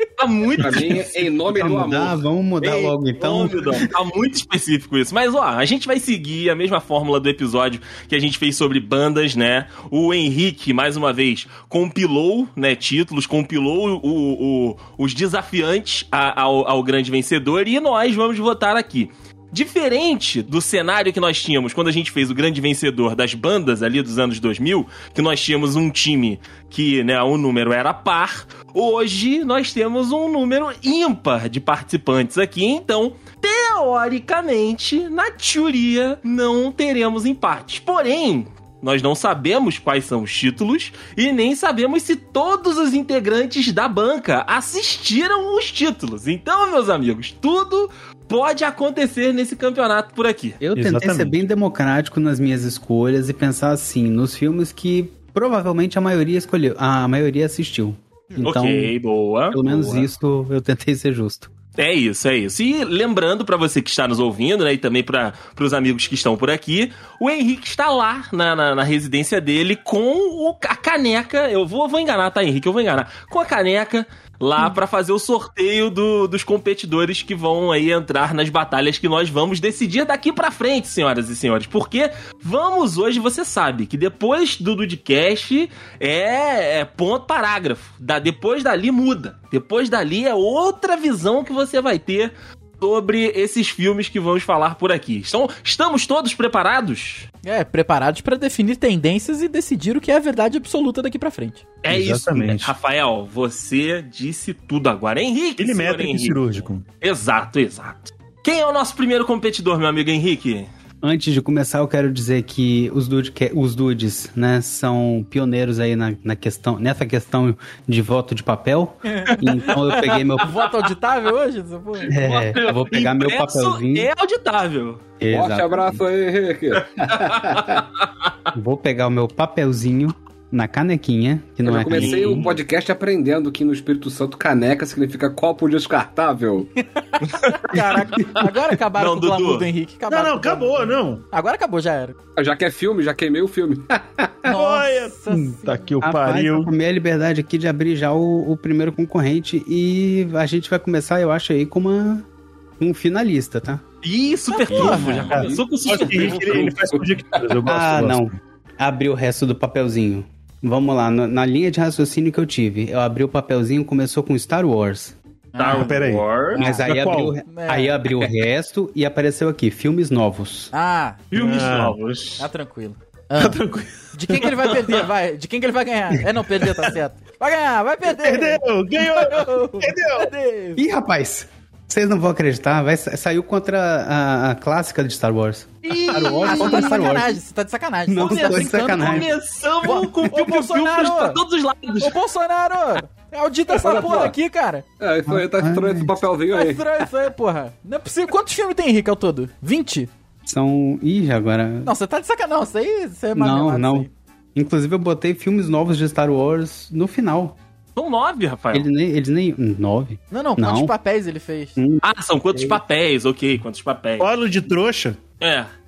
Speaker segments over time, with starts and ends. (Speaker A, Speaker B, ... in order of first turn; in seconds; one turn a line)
Speaker A: 0.2-1.1
Speaker B: 0.6-2.2
Speaker C: 1.4-3.9
Speaker A: 2.6-50.6
Speaker C: 50.6-58.9
Speaker D: 50.7-51.3
Speaker A: 58.4-60.1
Speaker C: 59.5-61.5
Speaker A: 61.8-97.3
Speaker E: 97.4-101.6
Speaker A: 101.8-110.7
Speaker D: 101.9-102.7
Speaker D: 105.6-106.8
Speaker C: 111.0-120.6
Speaker E: 119.1-122.2
Speaker A: 122.1-125.0
Speaker C: 122.1-124.1
Speaker C: 125.2-126.0
Speaker B: 125.3-127.8
Speaker A: 127.1-128.3
Speaker C: 128.5-132.5
Speaker B: 131.6-136.7
Speaker A: 131.9-132.6
Speaker E: 136.8-142.1
Speaker A: 137.2-139.7
Speaker D: 140.1-141.2
Speaker B: 142.4-144.5
Speaker E: 144.4-145.8
Speaker D: 144.5-146.7
Speaker C: 146.0-152.3
Speaker C: 152.8-153.8
Speaker A: 154.0-156.8
Speaker E: 154.5-155.6
Speaker B: 154.7-155.0
Speaker D: 154.8-158.3
Speaker B: 155.9-157.6
Speaker C: 157.6-165.1
Speaker E: 165.5-166.9
Speaker A: 165.6-166.6
Speaker D: 165.7-166.3
Speaker C: 166.6-170.7
Speaker D: 166.8-167.4
Speaker E: 167.4-168.0
Speaker E: 170.7-171.3
Speaker D: 171.3-172.0
Speaker A: 171.3-172.4
Speaker E: 172.4-180.8
Speaker D: 173.4-174.5
Speaker A: 174.7-175.0
Speaker D: 176.2-176.9
Speaker D: 178.1-180.3
Speaker C: 180.8-187.4
Speaker A: 185.9-187.1
Speaker E: 186.3-189.3
Speaker C: 188.1-189.3
Speaker A: 188.2-192.2
Speaker E: 189.8-191.4
Speaker E: 192.0-194.8
Speaker B: 193.7-194.4
Speaker B: 195.0-196.9
Speaker C: 195.3-196.1
Speaker E: 196.5-200.1
Speaker C: 200.4-201.9
Speaker E: 201.8-204.1
Speaker C: 203.3-207.6
Speaker A: 207.9-208.9
Speaker C: 208.7-210.9
Speaker E: 210.3-211.8
Speaker C: 211.8-212.8
Speaker A: 212.0-214.3
Speaker D: 214.2-215.2
Speaker A: 215.4-215.7